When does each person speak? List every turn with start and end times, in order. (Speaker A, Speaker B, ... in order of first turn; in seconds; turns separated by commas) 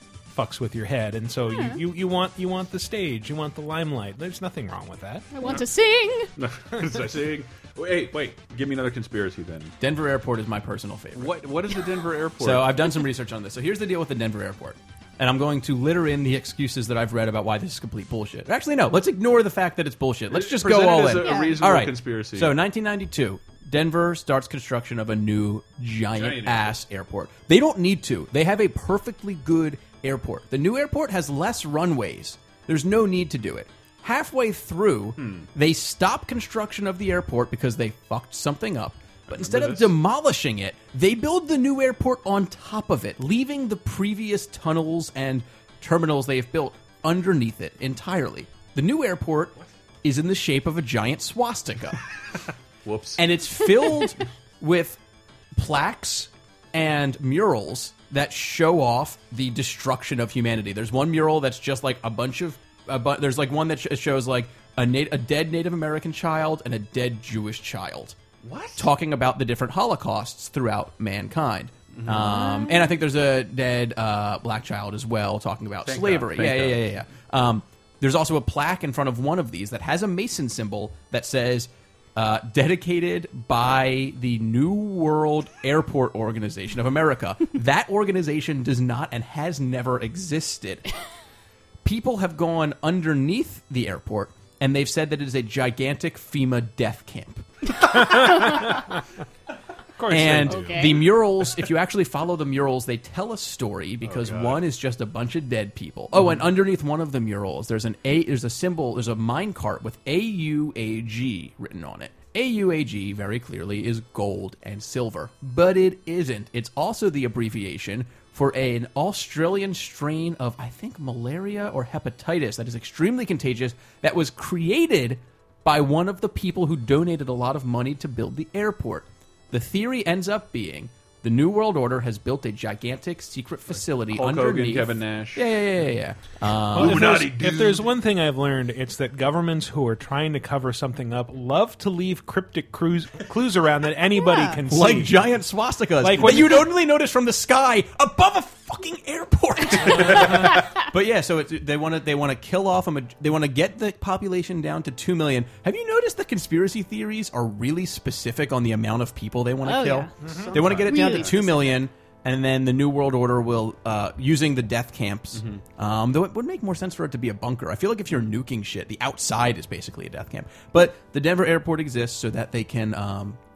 Speaker A: 0.3-5.3, Speaker B: 1.5-1.8, Speaker B: 5.3-6.3, Speaker C: 6.4-9.7, Speaker D: 9.8-11.4, Speaker C: 11.2-12.9, Speaker D: 12.4-52.0, Speaker C: 20.3-22.6, Speaker B: 21.2-21.7, Speaker C: 26.1-26.8, Speaker C: 35.2-35.5, Speaker C: 39.3-39.9, Speaker C: 52.9-53.2, Speaker D: 53.2-55.0, Speaker D: 55.6-68.2, Speaker C: 68.4-68.9, Speaker D: 68.8-90.9, Speaker C: 71.9-72.5, Speaker B: 72.3-72.9, Speaker C: 75.8-76.9, Speaker D: 91.8-97.5, Speaker A: 97.8-99.0, Speaker B: 97.9-98.8, Speaker A: 100.0-101.1, Speaker D: 100.1-137.1, Speaker B: 100.3-101.1, Speaker C: 104.0-104.6, Speaker C: 106.2-106.4, Speaker C: 134.1-135.6, Speaker C: 136.8-137.9, Speaker A: 136.8-145.3, Speaker B: 144.3-144.6, Speaker D: 144.7-173.4, Speaker A: 146.0-146.7, Speaker C: 149.9-150.4, Speaker B: 159.6-160.1, Speaker A: 160.2-160.5, Speaker C: 160.2-161.4, Speaker B: 160.6-161.8, Speaker C: 165.3-165.6